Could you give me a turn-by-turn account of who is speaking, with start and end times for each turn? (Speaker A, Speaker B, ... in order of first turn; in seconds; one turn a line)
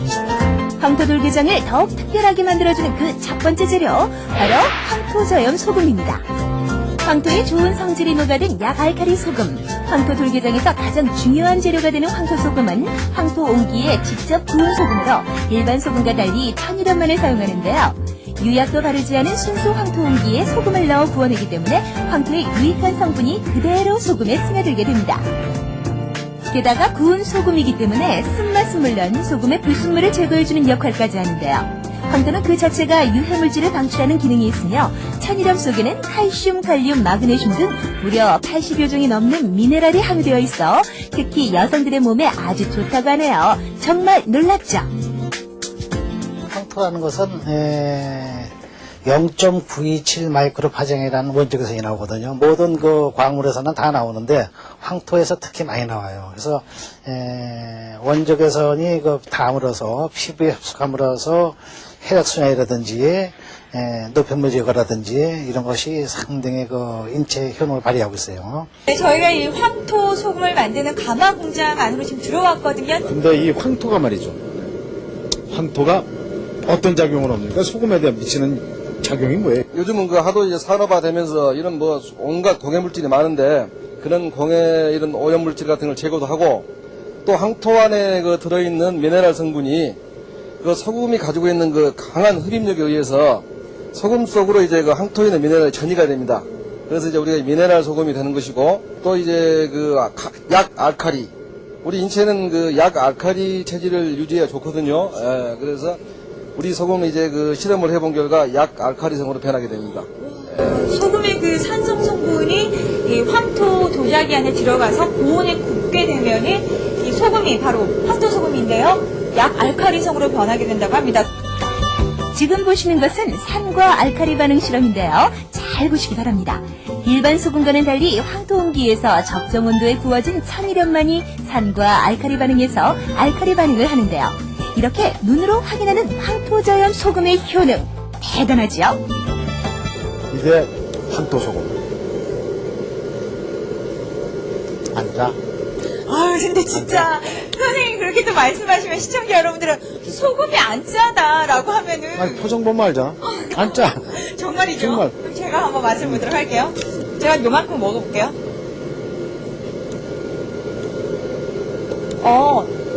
Speaker A: 0.8-6.2
Speaker A: 7.0-25.3
Speaker A: 26.5-44.9
Speaker B: 46.5-48.5
Speaker B: 49.1-68.7
Speaker C: 68.9-73.0
Speaker D: 73.0-74.4
Speaker D: 75.5-76.1
Speaker D: 76.7-79.7
Speaker E: 79.7-86.7
Speaker E: 87.2-90.0
Speaker E: 90.6-101.3
Speaker E: 101.8-106.0
Speaker E: 106.6-110.1
Speaker C: 110.5-121.3
Speaker A: 122.3-139.0
Speaker D: 140.3-141.8
Speaker D: 144.9-145.4
Speaker C: 146.1-152.5
Speaker D: 146.7-147.1
Speaker D: 152.2-154.0
Speaker C: 153.3-158.4
Speaker D: 154.7-155.1
Speaker D: 156.0-156.3
Speaker A: 162.2-162.6